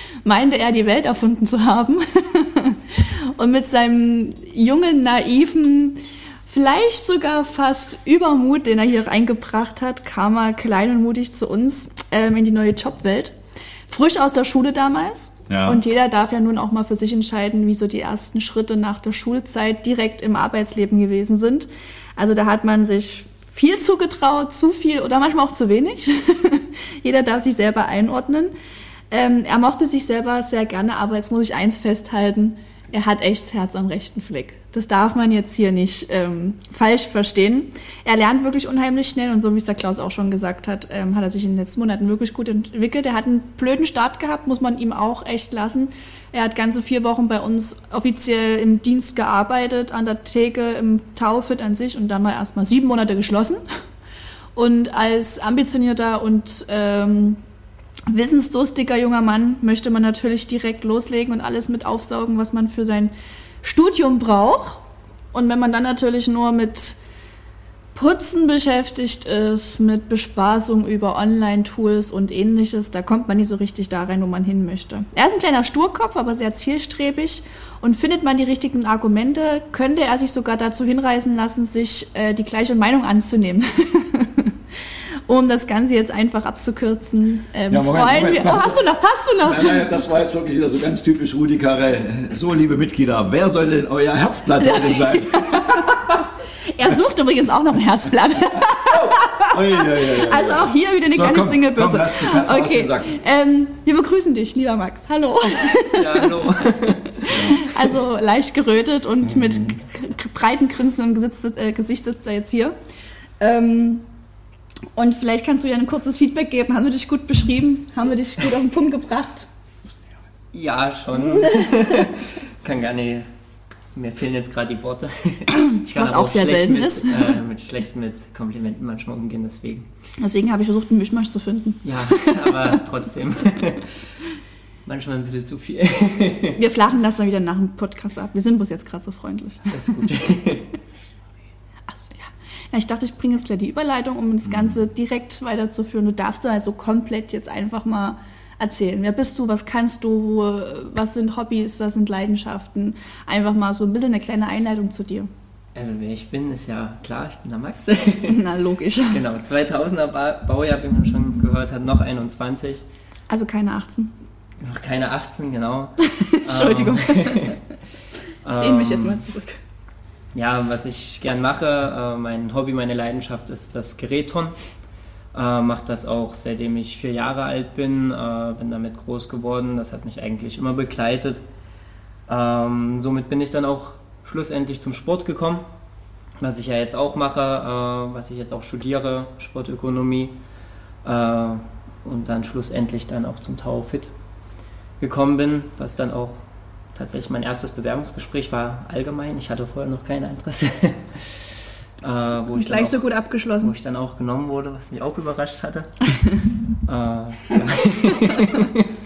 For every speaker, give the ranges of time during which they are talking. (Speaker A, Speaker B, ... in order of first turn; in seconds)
Speaker A: 0.2-13.3, 13.9-28.5, 29.1-53.6, 54.5-57.4, 58.1-64.8, 65.3-67.0, 68.0-84.5, 85.3-89.9, 94.6-96.2, 96.7-106.5, 107.2-112.7, 113.4-114.0, 115.0-119.5, 121.2-121.7, 125.5-127.4, 130.2-132.7, 136.6-139.8, 141.9-155.3, 158.3-159.2, 163.3-164.1, 166.0-167.6, 168.5-169.6, 202.5-203.7, 208.1-208.6
Speaker B: 15.5-15.8, 87.7-88.8, 89.4-96.2, 98.5-103.2, 107.3-107.6, 109.2-109.8, 144.4-144.8
Speaker C: 105.8-107.6, 120.5-123.3, 123.9-129.9, 131.8-134.1, 134.8-136.6, 139.7-140.7, 155.8-158.4, 159.1-162.8, 164.6-167.6, 168.4-169.2, 170.3-174.6, 175.3-181.4, 182.3-185.7, 186.4-190.3, 191.0-194.1, 195.0-196.4, 196.9-203.1, 203.6-206.0, 206.9-208.8